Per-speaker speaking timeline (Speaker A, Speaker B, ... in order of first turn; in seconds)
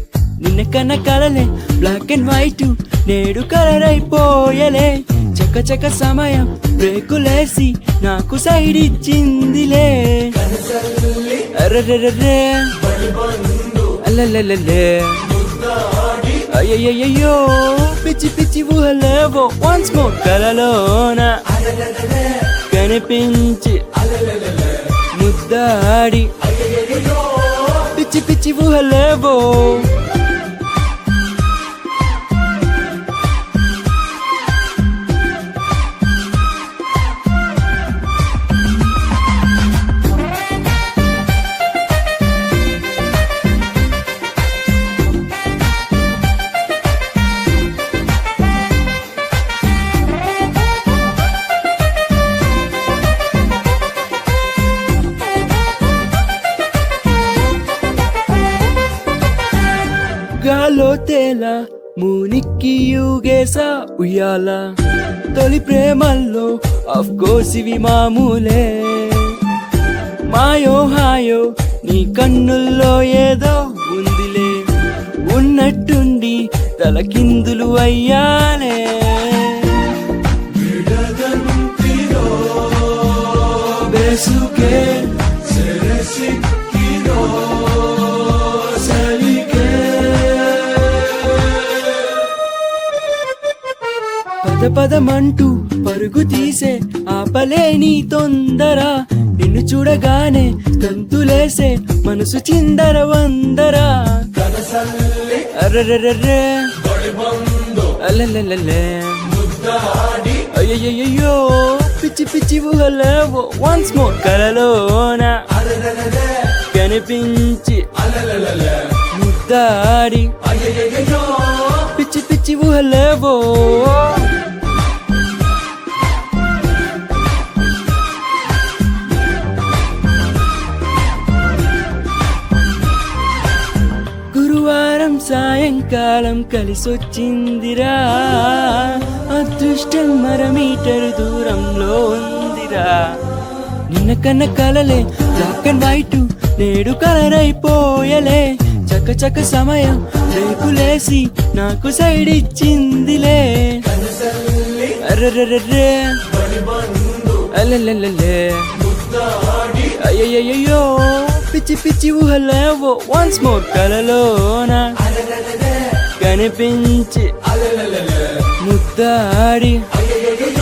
Speaker A: 0.4-10.6, 11.1-13.0, 13.6-21.6, 22.3-29.9, 60.3-64.8, 65.3-69.4, 70.2-74.7, 75.2-79.9, 80.5-91.9, 94.4-124.3, 134.3-143.2, 143.9-165.1, 166.0-167.5, 168.4-170.4